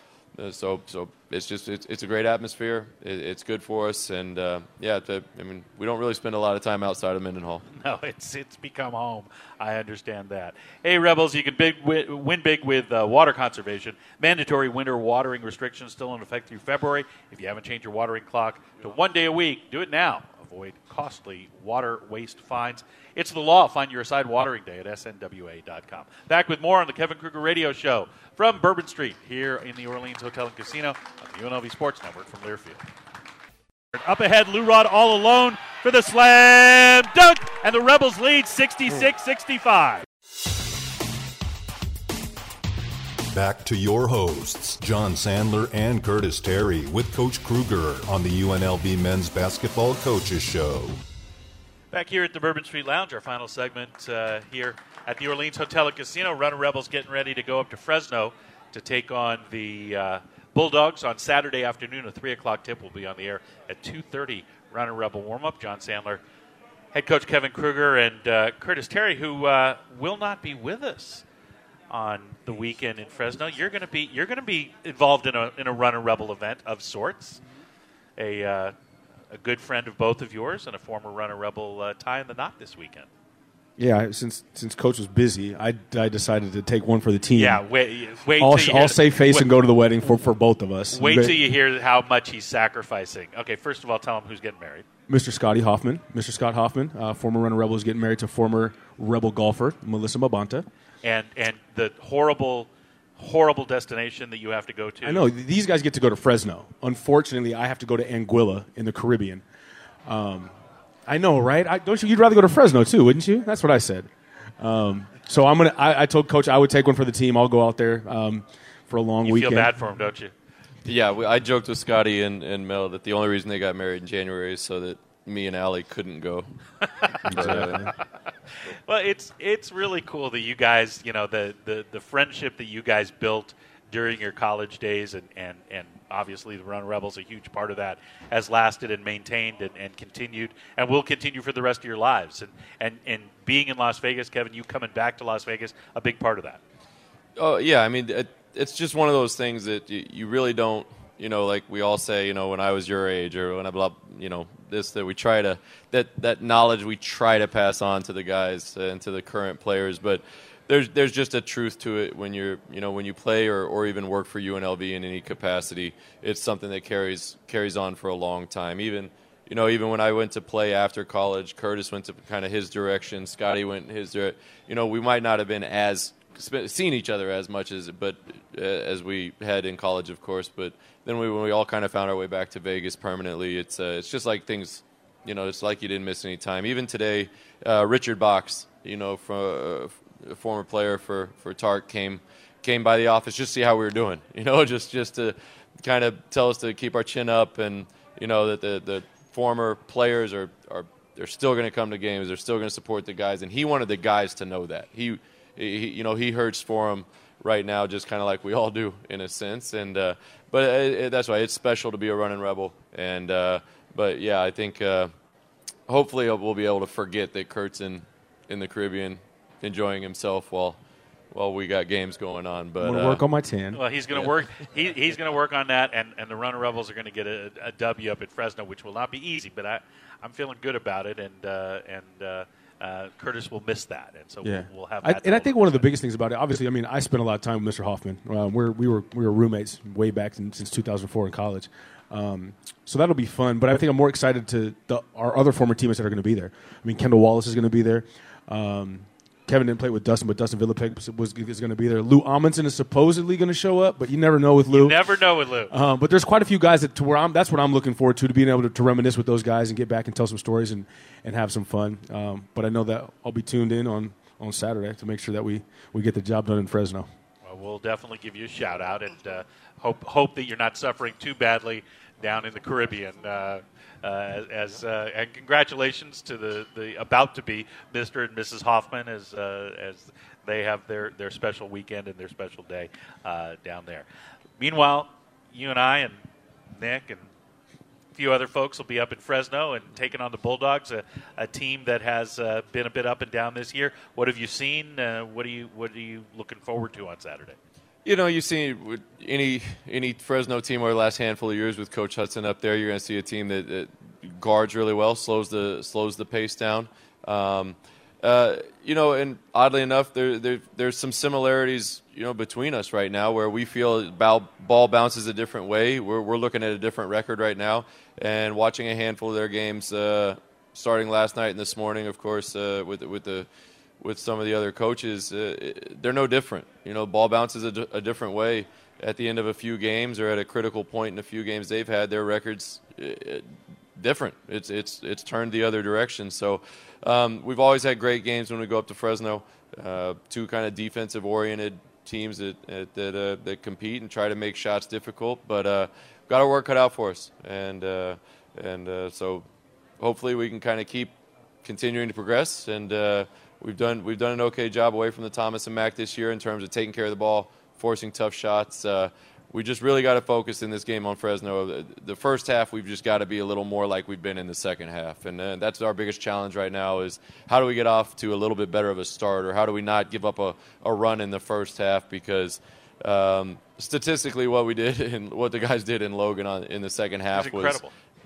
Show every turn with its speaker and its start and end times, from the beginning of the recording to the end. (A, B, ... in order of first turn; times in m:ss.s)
0:00.4-0:07.6 A
0:07.7-0:32.8 B
0:33.9-0:40.1 B
0:43.3-0:51.0 C
0:51.9-1:06.2 B
1:06.9-1:11.2 B
1:11.9-1:17.4 B
1:18.2-1:18.7 B
1:19.3-1:23.1 B
1:23.8-1:27.6 D
1:27.3-1:29.5 B
1:28.4-1:31.4 D
1:30.9-1:34.9 B
1:35.1-1:40.7 D
1:41.0-1:45.2 B
1:45.0-1:49.4 D
1:50.1-1:50.5 D
1:51.1-1:59.7 D
1:59.2-2:00.3 B
2:00.8-2:06.5 A
2:07.3-2:07.8 D
2:07.3-2:07.8 A
2:08.7-2:26.6 B
2:27.4-3:35.1 A
3:35.9-3:40.8 A
3:41.3-3:43.2 A
3:42.8-3:43.8 D
3:43.7-3:55.9 B
3:54.4-4:15.1 D
4:14.7-4:15.7 B
4:15.7-4:27.1 D
4:27.4-4:44.1 B
4:44.6-4:46.2 B
4:46.7-4:47.3 B
4:48.1-4:57.6 B
4:58.0-5:23.5 A
5:24.0-5:49.4 A
5:50.0-6:17.8 A
6:17.3-6:17.9 B